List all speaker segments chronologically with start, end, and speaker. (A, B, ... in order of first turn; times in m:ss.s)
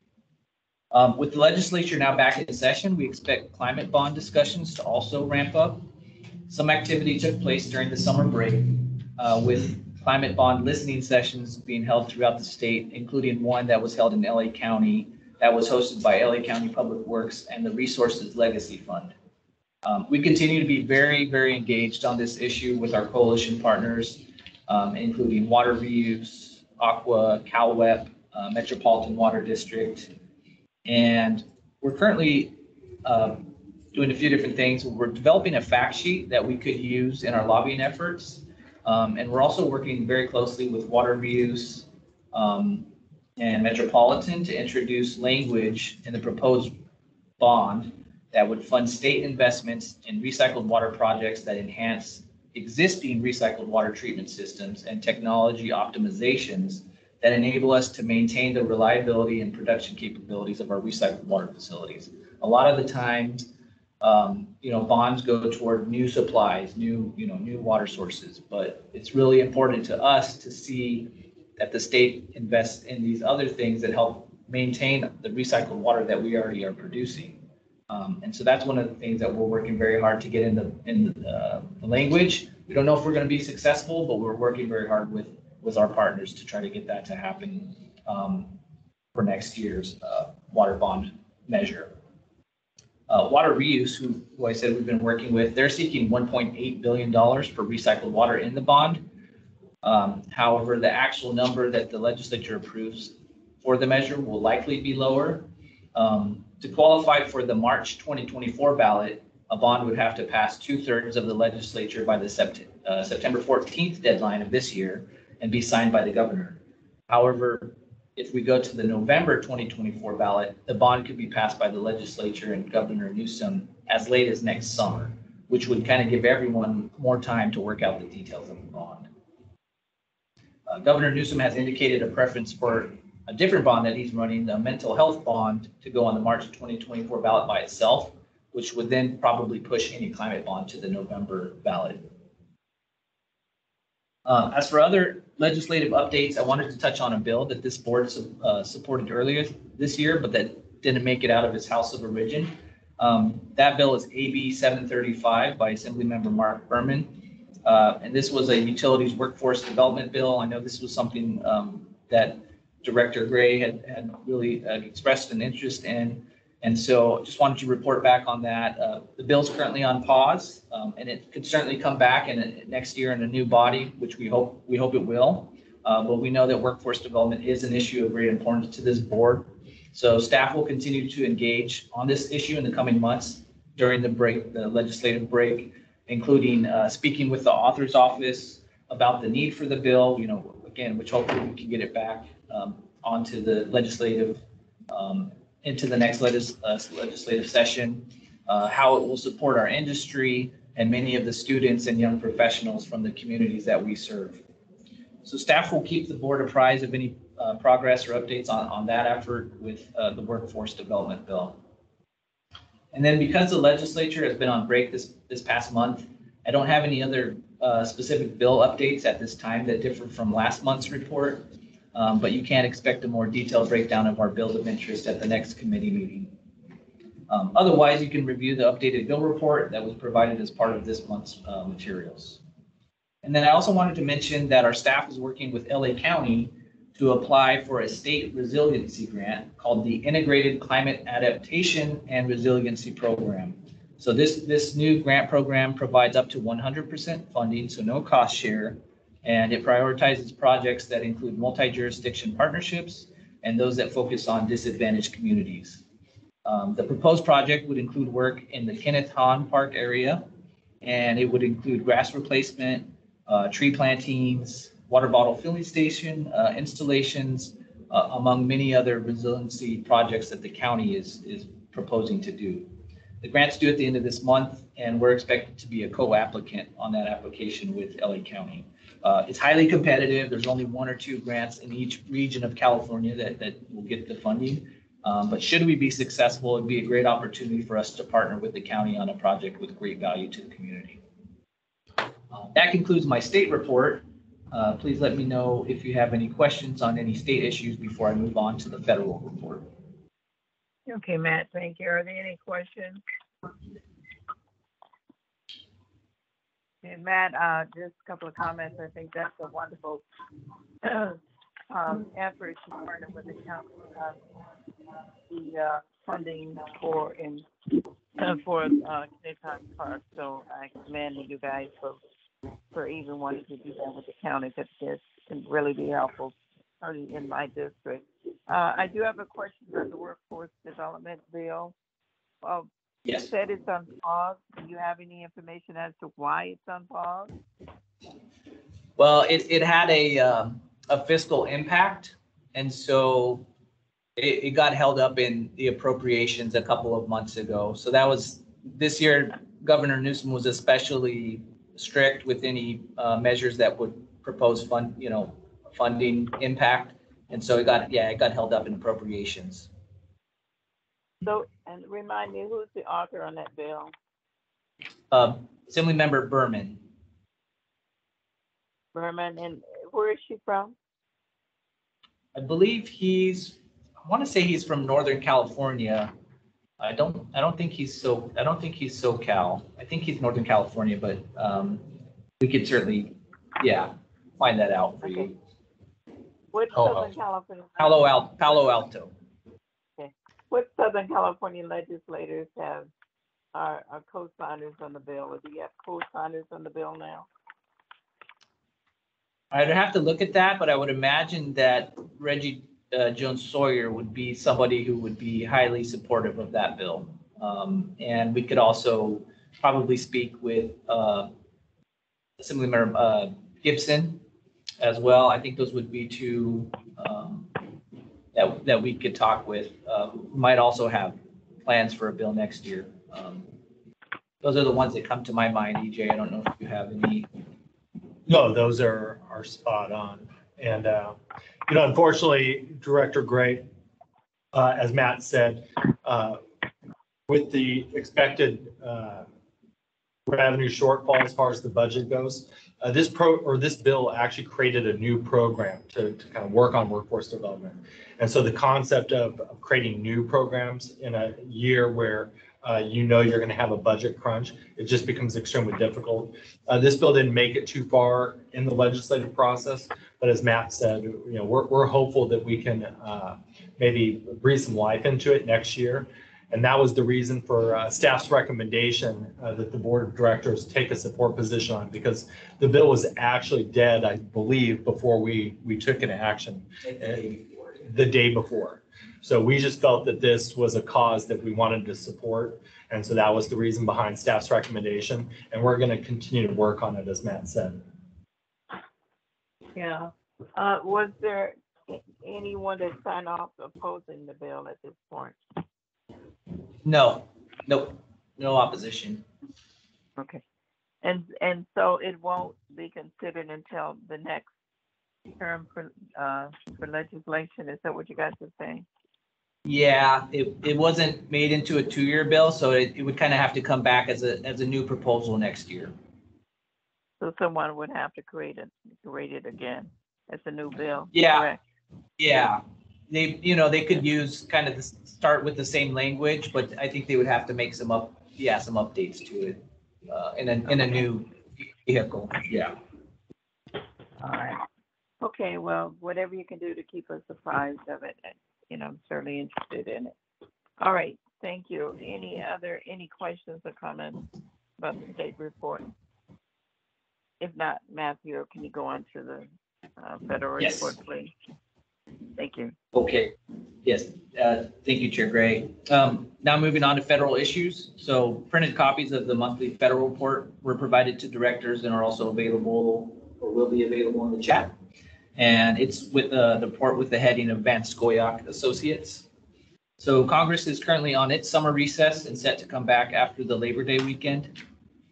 0:00.9-0:05.8 A
0:06.5-0:19.1 A
0:19.8-0:30.1 A
0:30.9-0:46.7 A
0:47.4-1:03.5 A
1:04.0-1:28.6 A
1:29.2-1:31.9 A
1:33.1-1:39.0 A
1:39.8-2:09.1 A
2:10.7-2:22.1 A
2:24.3-3:24.4 A
3:25.2-3:31.6 A
3:32.9-3:46.3 A
3:47.3-3:52.4 A
3:53.2-4:15.8 A
4:16.4-4:20.3 A
4:20.8-4:32.7 A
4:33.2-4:51.0 A
4:52.4-4:59.7 A
5:00.9-5:03.0 B
5:06.8-5:10.0 B
5:10.8-5:11.2 B
5:11.7-5:14.2 B
5:15.3-5:17.5 B
5:18.2-5:22.0 B
5:22.7-5:31.7 B
5:32.4-5:37.3 B
5:39.0-5:43.4 A
5:44.2-5:59.7 A
6:01.2-6:03.9 B
6:05.1-6:06.8 A
6:08.9-6:10.8 B
6:12.4-6:16.1 A
6:16.8-6:21.9 A
6:22.4-6:25.4 A
6:26.5-6:28.4 B
6:27.8-6:29.1 A
6:30.0-6:32.9 B
6:33.5-6:37.3 B
6:39.5-6:51.3 A
6:52.4-6:54.2 A
6:54.8-6:57.5 A
6:58.3-7:03.5 A
7:04.4-7:07.3 A
7:08.3-7:13.7 C
7:14.5-7:16.4 C
7:17.3-7:19.3 C
7:20.3-8:07.8 C
8:09.8-8:15.4 B
8:16.8-8:19.2 A
8:20.2-8:20.4 B
8:21.0-8:24.5 B
8:25.4-8:28.9 B
8:29.6-8:35.9 A
8:37.2-8:41.6 B
8:41.1-8:41.5 A
8:42.2-8:52.8 A
8:54.2-8:54.6 B
8:55.2-9:00.2 B
9:00.8-9:04.2 B
9:04.8-9:05.9 B
9:07.4-9:09.5 B
9:10.0-9:11.3 B
9:10.6-9:10.9 A
9:12.4-9:12.8 B
9:12.9-9:24.7 A
9:25.4-9:29.3 A
9:30.0-9:34.5 A